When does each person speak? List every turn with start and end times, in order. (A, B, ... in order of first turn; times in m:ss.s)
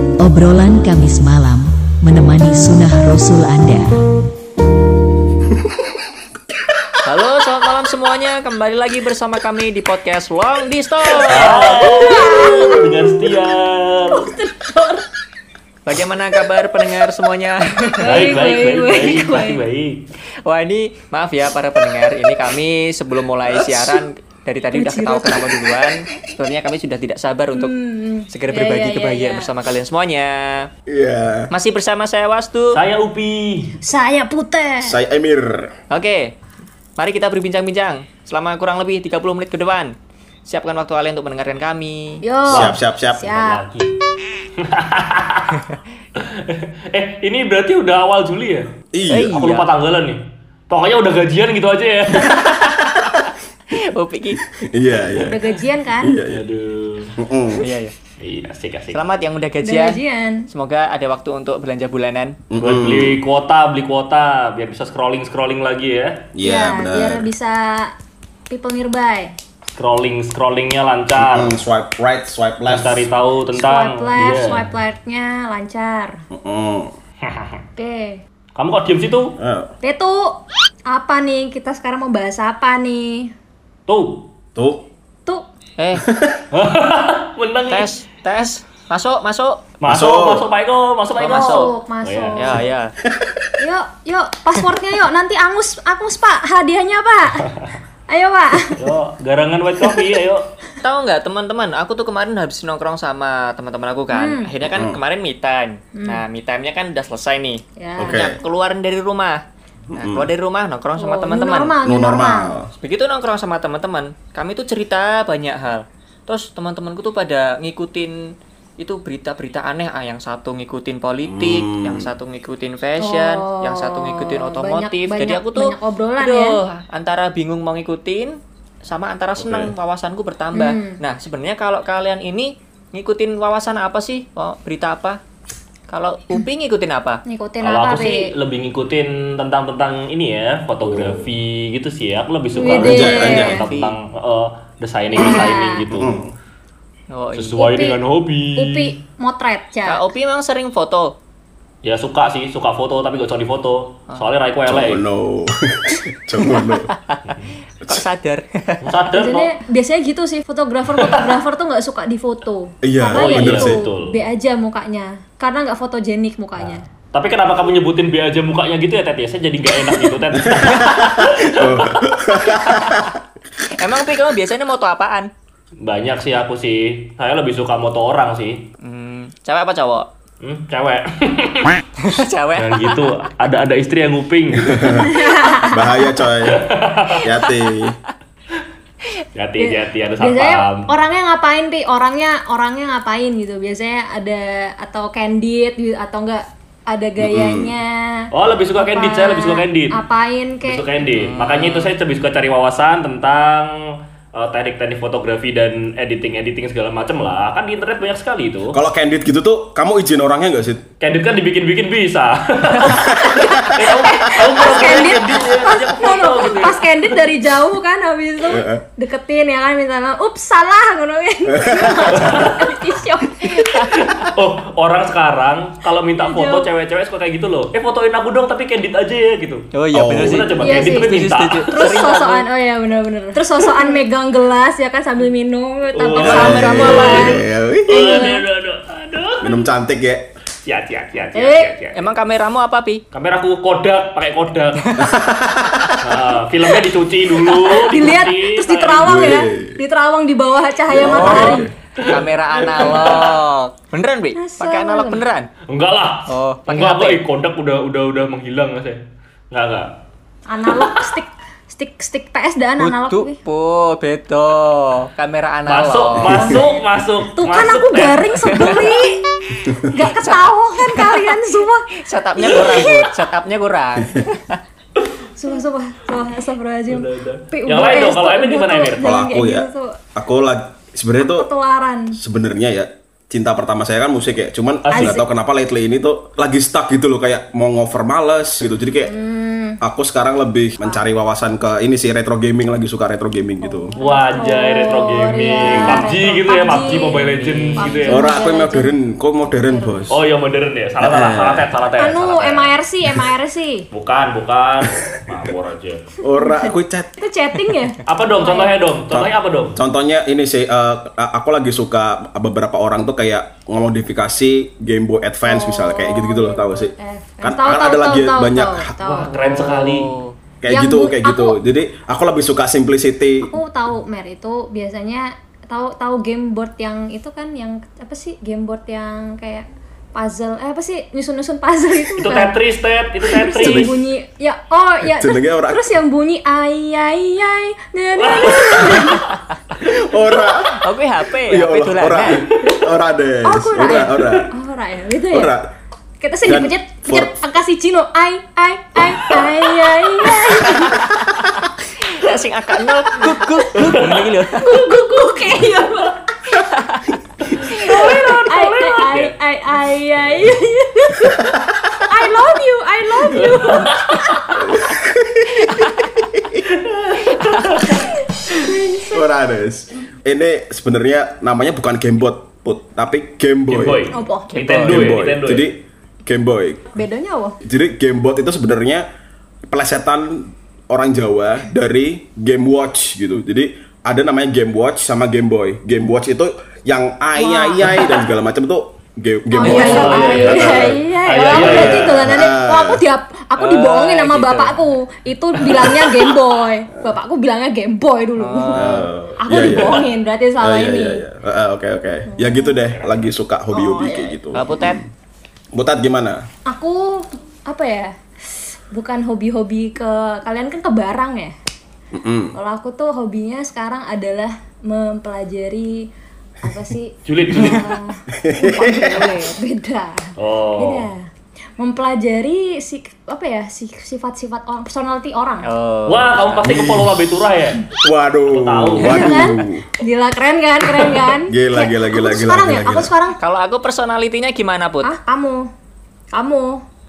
0:00.2-0:04.0 A
0:07.0-0:12.8 B
0:11.2-0:14.3 C
0:11.4-0:13.5 D
0:14.1-0:15.0 D
0:15.8-0:18.3 B
0:18.0-0:19.6 D
0:18.0-0:20.0 C
0:20.4-0:27.8 B
0:24.7-0:25.8 D
0:27.5-0:29.5 D
0:28.3-0:30.7 B
0:30.9-0:31.5 E
0:31.5-0:32.8 B
0:32.7-0:33.8 C
0:33.8-0:35.0 D
0:34.8-0:35.8 E
0:35.9-0:36.4 B
0:37.0-0:39.9 B
0:40.4-0:42.2 B
0:42.2-0:43.6 D
0:42.5-0:43.9 C
0:42.5-0:43.3 E
0:44.6-0:45.6 C
0:46.2-0:48.7 C
0:48.9-0:49.4 E
0:49.1-0:49.7 B
0:49.3-0:52.5 C
0:52.1-0:54.4 B
0:54.5-0:55.4 E
0:55.2-0:56.2 D
0:56.0-0:56.4 E
0:56.3-0:57.2 C
0:57.2-0:57.7 E
0:57.6-0:57.9 B
0:58.2-0:59.0 C
0:58.9-1:02.4 B
0:59.6-1:00.5 D
1:02.5-1:03.2 E
1:02.6-1:06.3 C
1:06.3-1:07.3 E
1:06.4-1:07.9 D
1:08.5-1:09.3 D
1:09.8-1:11.6 C
1:11.2-1:13.1 E
1:12.7-1:14.7 C
1:13.5-1:16.2 D
1:16.3-1:16.9 E
1:17.2-1:17.6 C
1:17.8-1:18.2 D
1:18.6-1:19.4 C
1:19.4-1:19.7 E
1:19.8-1:23.3 D
1:23.9-1:24.3 C
1:24.5-1:24.8 E
1:25.8-1:26.1 B
1:26.0-1:26.4 E
1:26.5-1:27.9 C
1:27.7-1:29.7 B
1:29.8-1:32.6 C
1:29.9-1:30.5 E
1:31.2-1:31.7 B
1:31.2-1:32.6 D
1:32.4-1:32.9 B
1:33.0-1:33.5 E
1:33.6-1:37.5 D
1:37.4-1:37.7 C
1:38.1-1:38.9 D
1:38.8-1:40.5 C
1:40.8-1:49.4 B
1:44.1-1:44.5 D
1:44.6-1:45.0 E
1:45.9-1:46.2 D
1:47.8-1:48.3 D
1:48.0-1:48.4 E
1:49.9-1:50.3 E
1:49.9-1:51.8 B
1:51.0-1:52.5 D
1:51.8-1:52.7 E
1:52.8-2:15.2 B
2:01.2-2:02.1 E
2:03.0-2:06.6 D
2:09.4-2:09.7 E
2:10.5-2:11.0 D
2:15.9-2:17.2 B
2:17.2-2:18.3 D
2:17.6-2:26.2 C
2:20.8-2:21.3 E
2:22.5-2:23.6 D
2:22.7-2:23.6 E
2:22.8-2:24.0 B
2:25.1-2:25.8 D
2:25.9-2:26.3 E
2:27.1-2:27.6 B
2:27.3-2:28.9 C
2:27.6-2:28.0 D
2:28.5-2:30.0 D
2:29.9-2:31.2 B
2:31.8-2:35.0 C
2:34.7-2:36.9 E
2:36.4-2:38.8 B
2:38.8-2:39.5 C
2:39.1-2:46.8 D
2:40.9-2:41.4 C
2:42.8-2:43.8 E
2:43.1-2:44.2 C
2:47.1-2:52.0 C
2:50.4-2:53.2 E
2:52.5-2:53.1 B
2:53.7-2:55.3 B
2:55.8-2:58.7 C
2:58.8-3:00.1 B
3:00.4-3:01.8 C
3:02.0-3:03.1 B
3:02.6-3:05.1 C
3:04.6-3:05.2 E
3:05.0-3:06.0 D
3:05.7-3:06.7 E
3:06.4-3:07.2 C
3:07.2-3:08.0 E
3:07.4-3:07.9 B
3:09.3-3:10.9 C
3:09.6-3:20.9 D
3:17.2-3:17.7 E
3:18.3-3:20.0 C
3:20.6-3:28.8 C
3:21.0-3:22.0 B
3:28.7-3:30.9 E
3:31.0-3:36.9 C
3:33.2-3:43.9 D
3:33.3-3:33.8 E
3:38.4-3:38.8 E
3:41.5-3:42.5 E
3:42.1-3:42.7 C
3:43.6-3:44.1 B
3:43.9-3:51.9 C
3:46.2-3:46.7 D
3:49.7-3:52.4 B
3:49.9-3:50.5 E
3:50.6-3:58.4 D
3:55.9-3:59.7 C
3:56.2-3:58.2 E
3:56.2-3:57.1 B
3:59.4-4:00.3 E
4:00.6-4:02.1 C
4:01.3-4:01.8 D
4:01.9-4:03.0 B
4:03.1-4:05.0 C
4:04.8-4:05.1 B
4:05.0-4:06.2 E
4:06.0-4:09.4 C
4:07.4-4:11.7 D
4:09.0-4:09.8 E
4:10.9-4:11.7 E
4:11.0-4:15.5 B
4:12.0-4:13.4 C
4:14.3-4:15.2 D
4:15.7-4:19.9 C
4:16.3-4:17.2 B
4:20.5-4:23.4 D
4:20.7-4:21.1 C
4:22.8-4:26.5 B
4:25.6-4:28.7 C
4:26.3-4:26.8 D
4:27.3-4:31.9 D
4:28.5-4:28.8 B
4:30.0-4:31.4 B
4:32.0-4:34.6 B
4:32.7-4:32.9 C
4:35.4-4:40.0 D
4:36.9-4:39.0 C
4:39.0-4:41.5 E
4:41.2-4:42.2 D
4:42.1-4:49.1 E
4:44.9-4:45.2 C
4:44.9-4:45.2 D
4:49.0-4:49.8 D
4:49.8-4:53.9 E
4:53.6-5:00.2 D
4:54.0-4:58.3 C
4:55.7-4:56.0 E
4:56.9-4:58.1 B
4:58.1-5:00.2 E
5:00.1-5:02.7 C
5:01.0-5:01.7 E
5:02.0-5:03.9 D
5:03.9-5:06.0 C
5:04.9-5:05.2 E
5:06.2-5:07.2 E
5:06.4-5:08.8 D
5:08.1-5:09.8 C
5:09.1-5:19.2 E
5:15.4-5:19.3 D
5:19.0-5:20.1 C
5:19.3-5:20.4 B
5:20.6-5:23.6 E
5:20.7-5:21.6 D
5:23.4-5:32.6 D
5:32.2-5:33.9 C
5:33.3-5:39.2 D
5:33.5-5:33.9 E
5:35.0-5:36.0 E
5:38.2-5:39.3 C
5:38.7-5:39.0 E
5:39.8-5:40.9 E
5:40.6-5:42.4 B
5:41.4-5:44.5 E
5:43.4-5:45.5 D
5:45.3-5:45.7 E
5:46.2-5:51.1 D
5:46.4-5:47.3 E
5:50.5-5:51.4 B
5:52.0-5:54.8 B
5:53.8-5:54.3 C
5:54.6-5:56.2 D
5:56.5-5:57.0 B
5:57.4-5:59.3 C
5:57.7-6:01.5 D
6:01.3-6:02.0 E
6:02.0-6:04.5 D
6:03.3-6:04.4 C
6:04.6-6:06.6 E
6:06.7-6:08.1 C
6:07.9-6:09.2 D
6:09.1-6:14.1 E
6:13.7-6:15.7 C
6:14.1-6:14.5 D
6:14.5-6:15.2 B
6:14.8-6:16.9 E
6:16.9-6:17.6 D
6:17.6-6:19.0 E
6:19.7-6:33.0 E
6:27.4-6:28.2 D
6:29.5-6:41.2 D
6:29.6-6:32.3 C
6:33.6-6:34.8 B
6:38.4-6:39.0 B
6:38.7-6:40.1 E
6:40.6-6:45.1 E
6:42.3-6:42.9 D
6:42.9-6:43.3 C
6:43.7-6:44.4 D
6:44.5-6:45.0 B
6:45.7-6:46.4 E
6:46.7-6:51.5 D
6:52.1-6:52.5 E
6:52.5-6:56.1 D
6:56.6-7:01.3 D
6:57.2-6:57.9 C
6:58.3-6:59.4 E
7:00.4-7:01.1 C
7:01.8-7:05.7 D
7:05.6-7:06.8 B
7:06.1-7:07.9 C
7:06.6-7:07.2 E
7:08.0-7:09.8 E
7:08.5-7:09.4 C
7:09.1-7:13.4 D
7:10.9-7:11.2 C
7:11.5-7:13.1 E
7:13.4-7:15.1 B
7:15.0-7:15.7 D
7:16.3-7:16.8 D